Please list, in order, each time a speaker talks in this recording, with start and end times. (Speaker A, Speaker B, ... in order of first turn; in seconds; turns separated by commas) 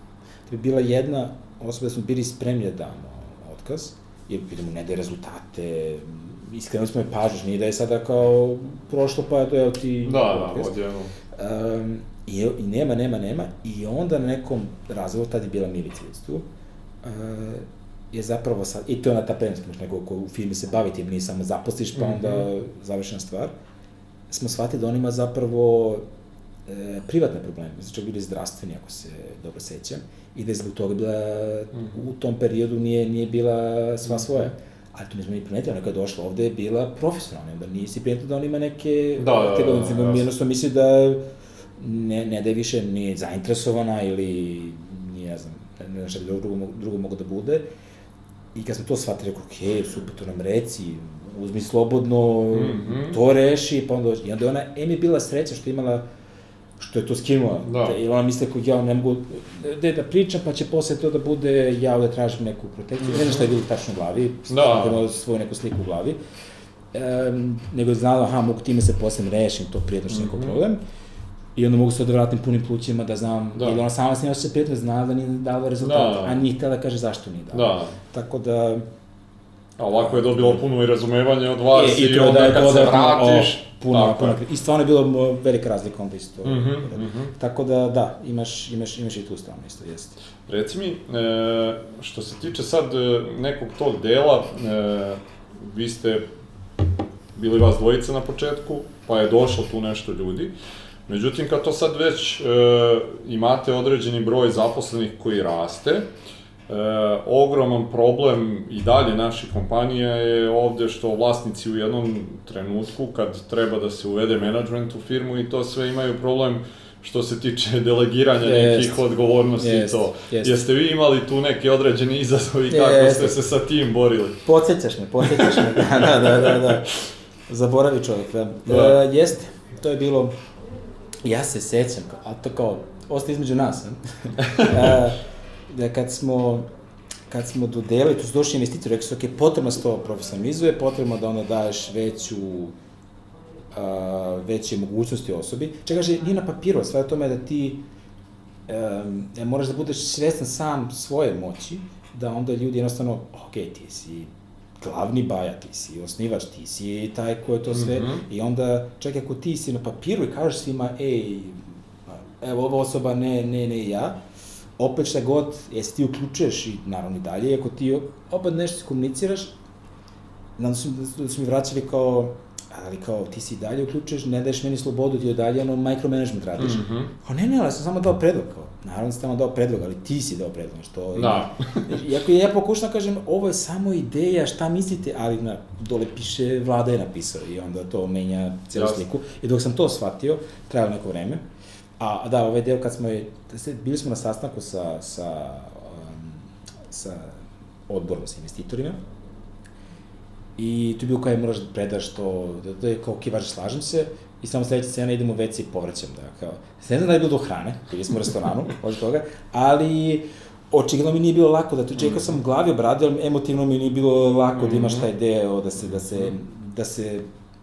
Speaker A: 0.5-10.8, Speaker B: 10.0-11.1, Speaker A: 11.3-16.4, Speaker A: 17.0-23.5, Speaker B: 22.0-22.5, Speaker A: 24.3-26.0, Speaker A: 26.7-41.2, Speaker B: 34.1-34.5, Speaker B: 39.2-40.3, Speaker A: 41.8-47.6, Speaker A: 48.5-56.0, Speaker B: 52.5-53.2, Speaker A: 56.8-66.2, Speaker B: 57.6-58.0, Speaker B: 63.0-63.4, Speaker B: 64.5-65.0, Speaker A: 66.9-70.8, Speaker B: 70.1-70.6, Speaker A: 71.6-78.9, Speaker B: 73.5-73.8, Speaker B: 75.8-76.4, Speaker B: 77.5-78.0, Speaker B: 79.8-84.4, Speaker A: 79.9-80.6, Speaker A: 81.7-90.2, Speaker B: 86.4-87.3, Speaker B: 90.5-96.3, Speaker B: 97.3-100.5, Speaker B: 101.1-106.1, Speaker B: 106.7-124.4, Speaker A: 118.4-119.0, Speaker A: 119.6-120.6, Speaker A: 122.7-123.4, Speaker A: 124.5-127.0, Speaker B: 125.4-125.6, Speaker B: 126.4-126.7, Speaker A: 127.5-130.3, Speaker B: 128.7-129.0, Speaker A: 131.2-136.6, Speaker B: 134.4-134.9, Speaker A: 137.3-142.7, Speaker A: 143.7-147.8, Speaker A: 148.7-164.2, Speaker B: 157.7-158.2, Speaker A: 164.8-169.5, Speaker A: 170.6-191.4, Speaker B: 176.6-177.1, Speaker B: 181.2-181.9, Speaker B: 188.8-189.0, Speaker A: 192.0-199.0, Speaker A: 200.6-217.2, Speaker B: 212.0-212.4, Speaker B: 214.6-215.1, Speaker B: 215.9-216.3